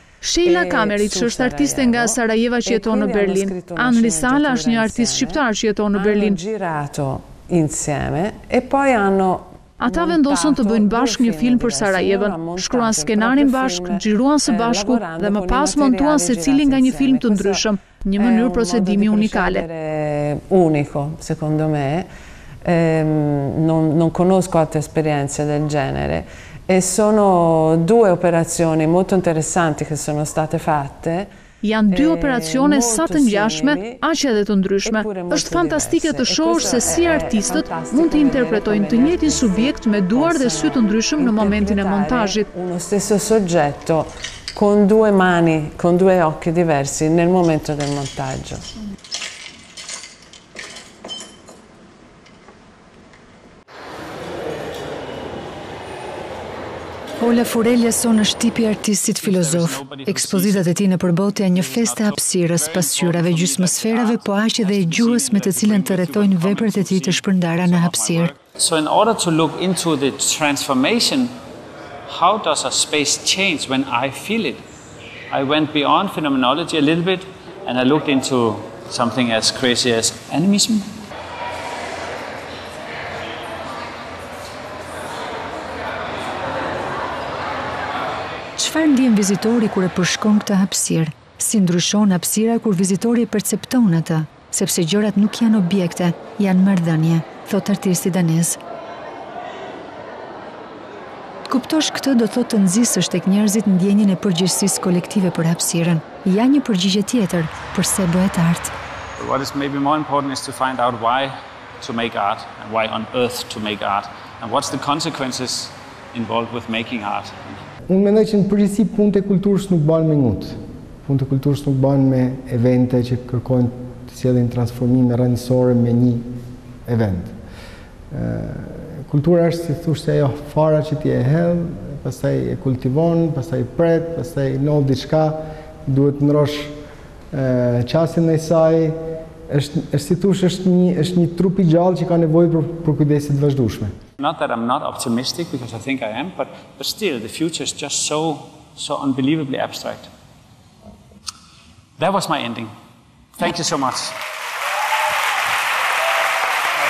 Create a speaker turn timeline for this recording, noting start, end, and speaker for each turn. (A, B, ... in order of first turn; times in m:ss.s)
0:00.2-0:06.4 A
0:00.4-0:05.4 B
0:05.9-0:22.1 B
0:09.8-0:19.6 A
0:22.6-0:31.3 B
0:31.6-0:42.5 A
0:31.9-0:34.0 B
0:34.8-0:48.6 B
0:57.2-1:08.3 C
0:59.2-1:11.3 D
1:12.1-1:14.6 D
1:15.3-1:20.9 D
1:28.6-1:38.6 C
1:41.5-1:48.7 C
1:49.2-1:57.6 D
1:57.9-2:06.2 E
2:06.9-2:07.4 E
2:08.1-2:16.7 E
2:17.3-2:19.0 E
2:19.5-2:23.9 E
2:24.2-2:30.1 D
2:32.0-2:32.7 D
2:33.4-2:34.2 D